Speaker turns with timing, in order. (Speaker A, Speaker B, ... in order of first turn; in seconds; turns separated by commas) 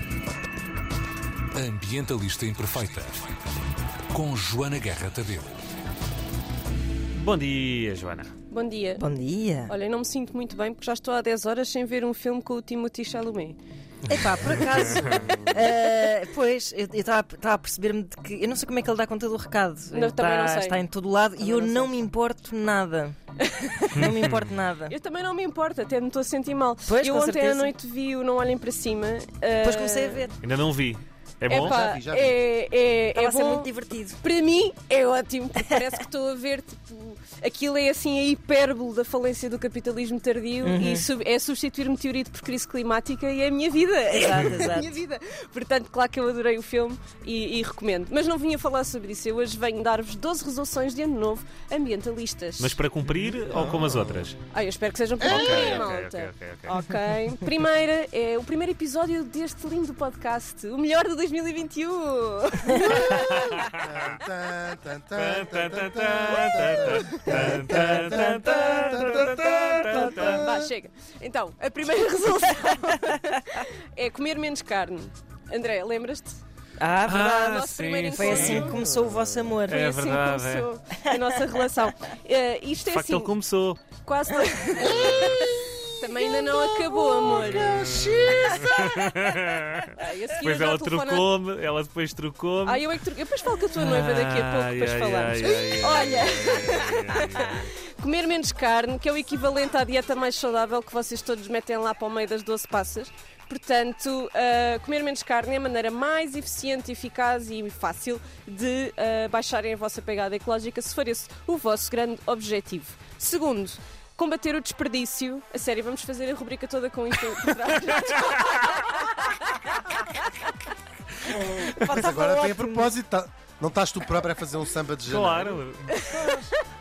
Speaker A: 1.5-3.3, Speaker A: 4.1-5.6, Speaker B: 7.1-8.3, Speaker C: 8.5-9.1, Speaker D: 9.0-9.7, Speaker C: 9.7-13.6, Speaker D: 14.1-23.2, Speaker C: 19.9-20.8, Speaker C: 21.4-21.9, Speaker C: 23.4-24.0, Speaker D: 23.8-24.9, Speaker B: 23.9-24.5, Speaker C: 24.9-30.3, Speaker D: 26.9-27.7, Speaker D: 29.6-30.4, Speaker B: 30.4-31.8, Speaker C: 31.5-52.8, Speaker E: 31.5-32.4, Speaker D: 33.1-34.2, Speaker D: 40.6-41.1, Speaker D: 44.1-44.9, Speaker B: 52.6-54.4, Speaker E: 53.5-54.3, Speaker C: 54.5-63.6, Speaker E: 55.2-55.9, Speaker B: 55.2-56.8, Speaker B: 62.9-64.2, Speaker E: 63.0-70.7, Speaker B: 65.1-70.4, Speaker C: 69.9-76.4, Speaker D: 76.8-79.9, Speaker B: 77.0-78.8, Speaker C: 77.4-78.8, Speaker B: 79.6-80.7, Speaker C: 79.8-83.3, Speaker B: 82.9-83.8, Speaker C: 84.0-88.0, Speaker E: 85.0-85.8, Speaker E: 86.6-89.4, Speaker B: 87.7-92.9, Speaker C: 90.0-91.3, Speaker C: 92.7-120.5, Speaker B: 93.8-97.7, Speaker C: 121.3-122.1, Speaker E: 121.6-125.6, Speaker D: 121.8-122.9, Speaker B: 125.1-126.1, Speaker C: 125.9-126.6, Speaker E: 126.2-126.5